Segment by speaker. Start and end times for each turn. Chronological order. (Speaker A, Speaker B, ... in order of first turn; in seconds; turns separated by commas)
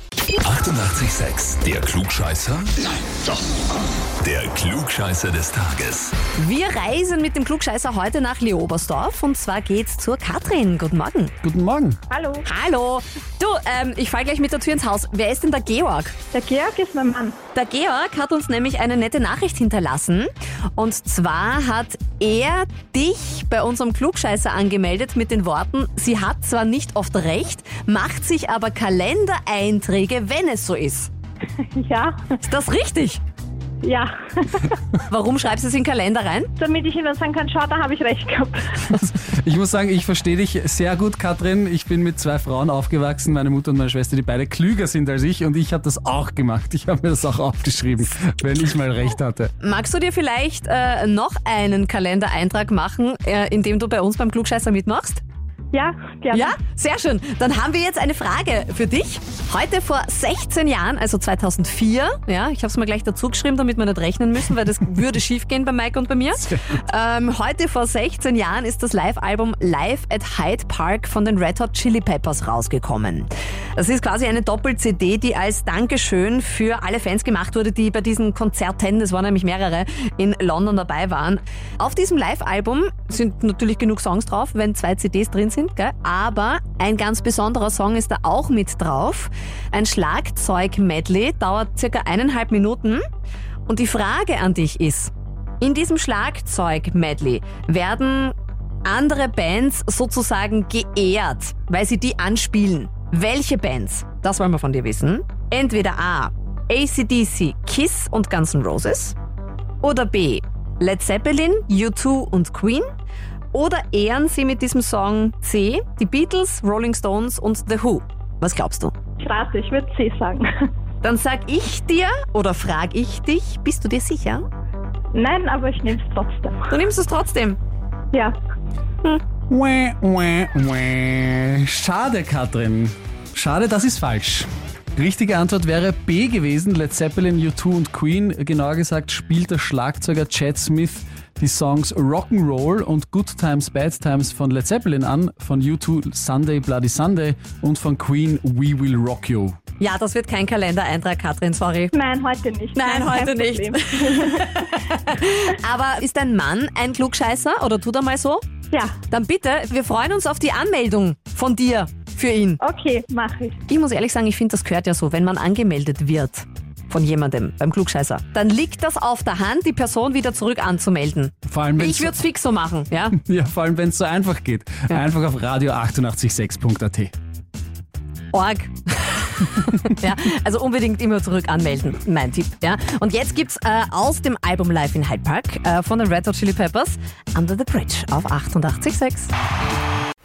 Speaker A: 0.4-2.8, Speaker A: 4.2-6.1, Speaker B: 6.4-11.3, Speaker C: 11.4-12.0, Speaker D: 12.1-12.4, Speaker B: 12.4-16.1, Speaker D: 16.3-17.4, Speaker B: 17.5-31.1, Speaker D: 31.7-32.2, Speaker B: 32.4-33.2, Speaker D: 33.8-34.7, Speaker B: 35.0-36.5, Speaker D: 36.6-38.9, Speaker C: 38.9-49.5, Speaker B: 49.6-55.2, Speaker D: 55.7-56.6, Speaker B: 56.3-93.0, Speaker B: 93.7-109.2, Speaker B: 109.8-112.9, Speaker B: 113.5-118.9, Speaker D: 119.2-120.7, Speaker B: 121.0-124.5, Speaker D: 125.1-126.7, Speaker B: 126.7-127.6, Speaker C: 129.5-149.6, Speaker B: 149.8-151.9, Speaker D: 151.9-154.6, Speaker B: 152.8-158.4, Speaker B: 159.1-162.6, Speaker D: 162.6-163.6, Speaker B: 163.7-173.2, Speaker C: 171.5-172.2, Speaker C: 173.2-177.1, Speaker B: 178.3-189.3